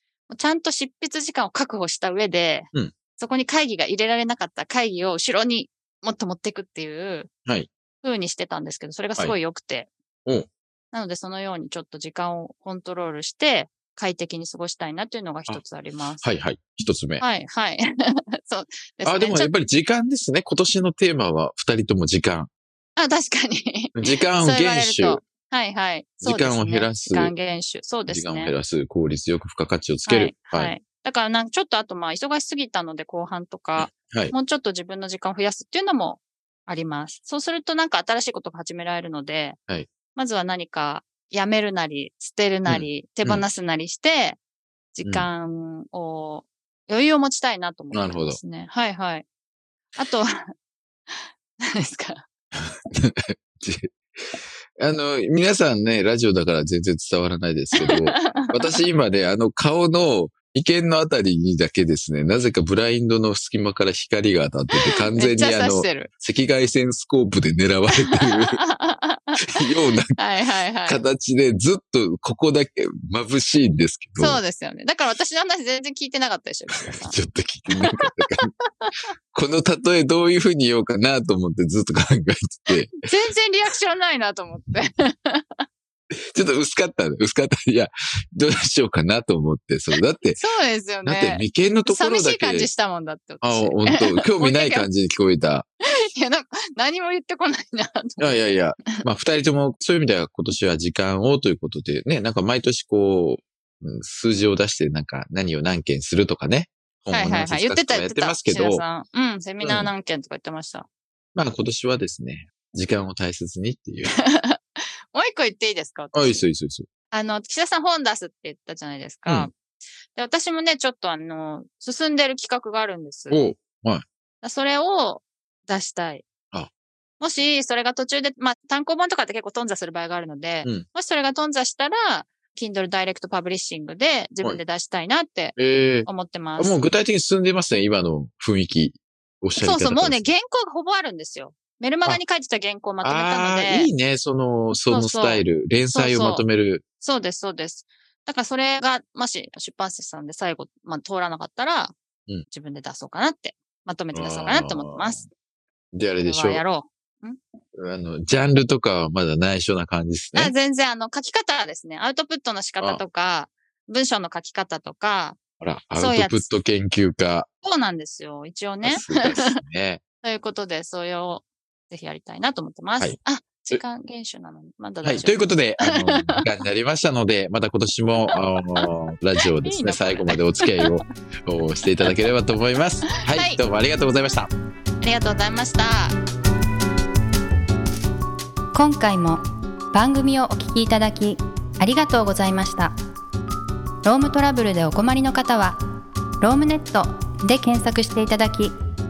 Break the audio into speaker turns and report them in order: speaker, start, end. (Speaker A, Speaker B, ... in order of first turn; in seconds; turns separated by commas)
Speaker A: 0.3-7.3, Speaker A: 8.0-9.9, Speaker A: 10.9-16.2, Speaker B: 16.2-17.2, Speaker A: 17.2-17.8, Speaker A: 18.4-19.5, Speaker B: 19.0-22.5, Speaker A: 23.0-28.5, Speaker B: 24.0-25.2, Speaker B: 26.2-27.3, Speaker B: 28.1-30.7, Speaker A: 30.1-39.6, Speaker B: 33.8-34.4, Speaker A: 40.1-44.4, Speaker B: 42.6-43.4, Speaker A: 45.0-49.2, Speaker B: 47.9-48.4, Speaker A: 50.0-50.3, Speaker A: 51.1-52.2, Speaker B: 52.5-68.6, Speaker A: 57.8-58.8, Speaker A: 64.8-66.1, Speaker A: 68.1-69.4, Speaker B: 69.4-70.1, Speaker A: 70.1-71.0, Speaker B: 70.9-74.4, Speaker A: 74.2-77.2, Speaker B: 76.7-78.5, Speaker A: 77.7-78.2, Speaker B: 79.3-83.0, Speaker A: 83.0-85.6, Speaker B: 86.2-90.4, Speaker A: 90.3-94.9, Speaker B: 91.0-92.7, Speaker B: 93.4-95.7, Speaker A: 96.1-98.4, Speaker B: 98.2-108.8, Speaker A: 107.1-110.9, Speaker B: 109.6-109.9, Speaker B: 111.3-114.1, Speaker A: 114.1-116.5, Speaker B: 116.1-116.9, Speaker A: 117.1-119.5, Speaker A: 120.1-123.4, Speaker B: 123.3-124.0, Speaker A: 124.4-126.2, Speaker A: 127.2-136.9, Speaker B: 135.6-140.3, Speaker A: 139.6-143.9, Speaker B: 143.0-146.8, Speaker A: 144.8-146.5, Speaker A: 147.0-151.9, Speaker A: 152.5-155.3, Speaker B: 154.1-155.2, Speaker B: 155.9-156.6, Speaker A: 156.2-157.4, Speaker B: 157.8-160.5, Speaker A: 160.3-165.4, Speaker B: 165.6-167.5, Speaker A: 165.9-166.5, Speaker A: 167.6-169.6, Speaker B: 168.8-170.0, Speaker A: 170.2-176.4, Speaker B: 175.0-184.5, Speaker A: 178.3-178.9, Speaker A: 179.5-181.0, Speaker A: 183.3-183.6, Speaker A: 185.0-186.2, Speaker C: 188.7-189.4, Speaker C: 189.9-192.9, Speaker C: 194.0-195.8, Speaker C: 196.4-198.7